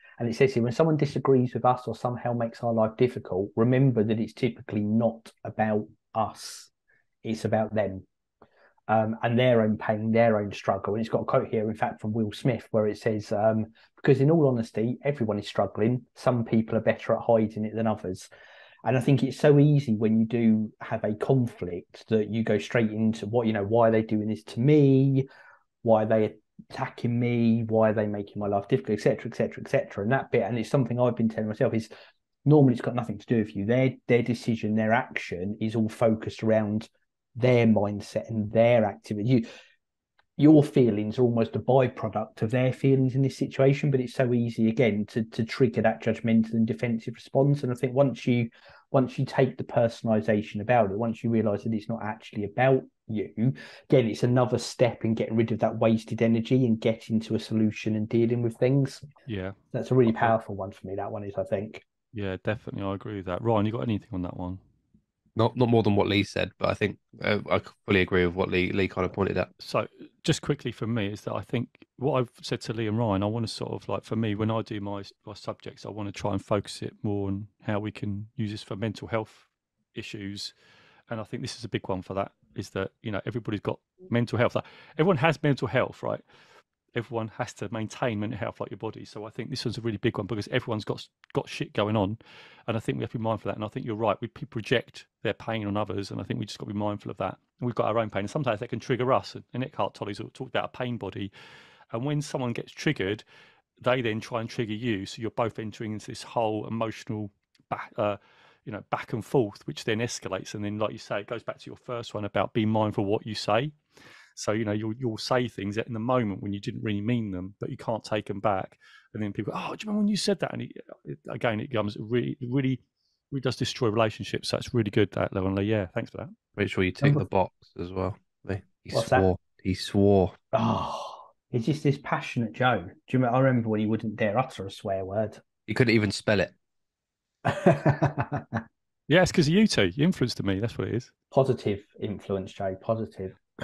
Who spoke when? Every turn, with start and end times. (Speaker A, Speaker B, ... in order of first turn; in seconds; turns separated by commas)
Speaker A: 0.2-6.7, Speaker A: 7.2-8.1, Speaker A: 8.9-18.3, Speaker A: 18.8-25.2, Speaker A: 25.8-31.9, Speaker A: 32.4-39.4, Speaker A: 40.4-59.0, Speaker B: 59.2-60.3, Speaker A: 59.7-61.8, Speaker B: 62.1-64.6, Speaker C: 65.3-69.5, Speaker B: 69.6-80.5, Speaker B: 81.1-86.2, Speaker B: 86.9-101.3, Speaker B: 101.9-103.2, Speaker B: 103.8-113.7, Speaker B: 114.3-126.3, Speaker C: 126.5-130.3, Speaker A: 128.9-129.3, Speaker A: 130.5-135.4, Speaker C: 135.7-136.5, Speaker A: 137.4-138.6, Speaker B: 139.1-141.1, Speaker A: 141.3-143.4